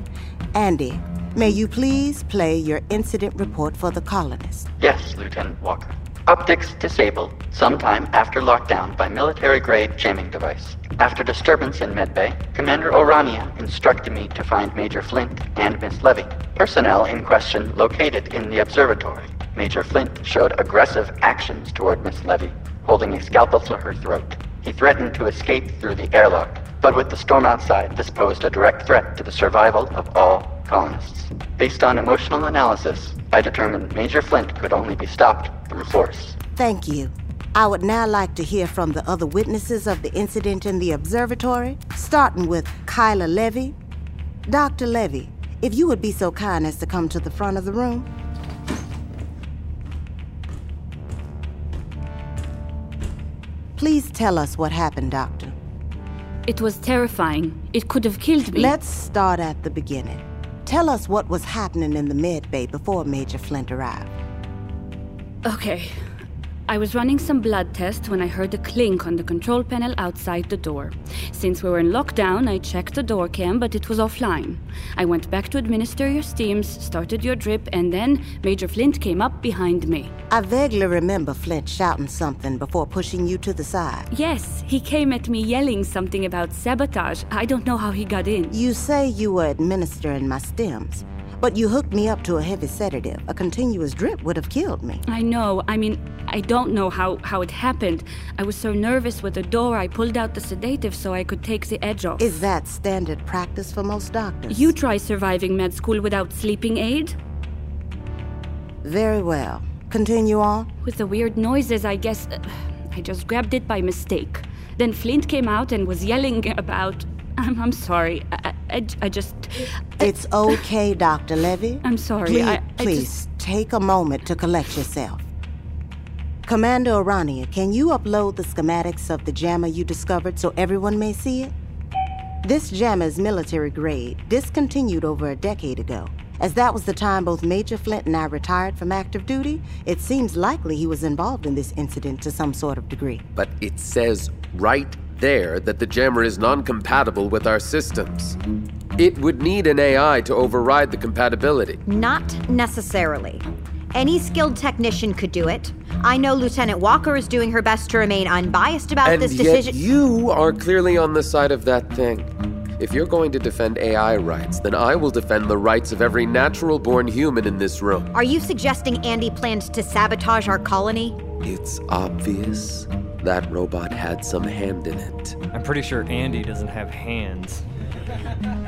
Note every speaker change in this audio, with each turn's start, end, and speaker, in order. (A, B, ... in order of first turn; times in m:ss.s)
0:00.5-0:04.7 A
0:04.8-0:36.4 B
0:36.6-0:43.7 A
0:44.5-0:48.1 A
0:53.8-0:55.6 A
0:56.5-0:58.8 C
0:58.5-1:04.1 A
1:05.4-1:06.0 C
1:06.7-1:20.1 C
1:20.3-1:24.1 A
1:24.1-1:28.5 C
1:28.5-1:35.0 A
1:35.0-1:42.3 C
1:42.2-1:44.7 A
1:44.5-1:47.2 C
1:48.8-1:50.7 A
1:50.8-2:00.6 C
2:00.0-2:05.3 A
2:01.8-2:03.1 C
2:06.4-2:11.5 A
2:12.4-2:23.2 A
2:23.4-2:28.4 D
2:29.0-2:31.8 D
2:31.8-2:39.8 E
2:39.0-2:48.1 D
2:48.1-2:51.2 E
2:51.4-2:55.4 D
2:55.5-2:57.6 F